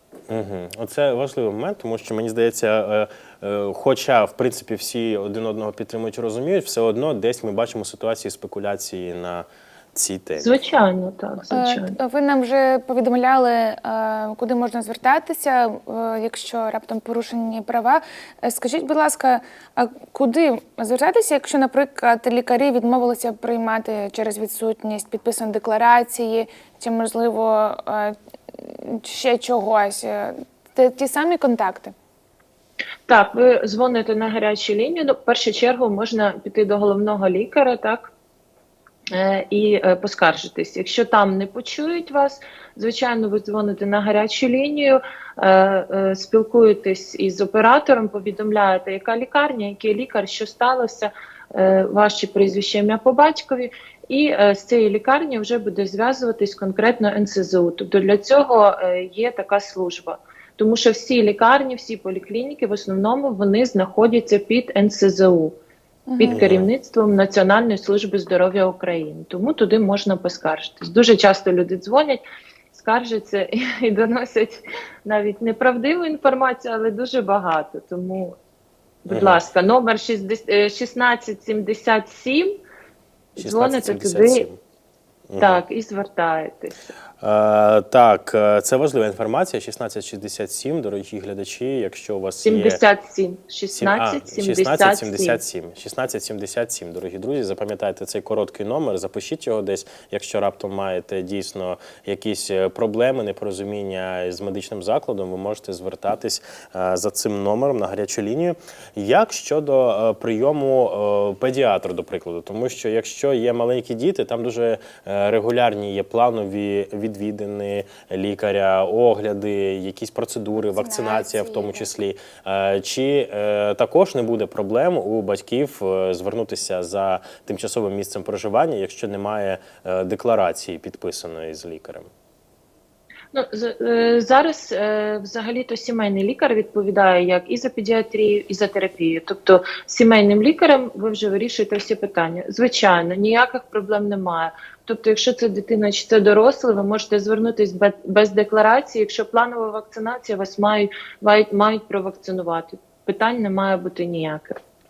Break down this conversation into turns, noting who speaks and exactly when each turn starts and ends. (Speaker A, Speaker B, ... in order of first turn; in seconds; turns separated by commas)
Speaker A: 0.3-10.5, Speaker B: 10.4-11.9, Speaker C: 11.5-31.9, Speaker B: 33.1-38.1, Speaker B: 39.1-65.5, Speaker C: 66.1-66.4, Speaker B: 66.2-78.3, Speaker A: 66.3-66.7, Speaker B: 79.0-82.5, Speaker A: 79.1-79.4, Speaker B: 83.4-84.5, Speaker A: 83.4-84.6, Speaker A: 85.3-85.6, Speaker B: 85.4-86.8, Speaker A: 87.2-92.8, Speaker B: 92.4-95.4, Speaker A: 93.7-132.1, Speaker C: 120.6-121.9, Speaker B: 133.3-154.6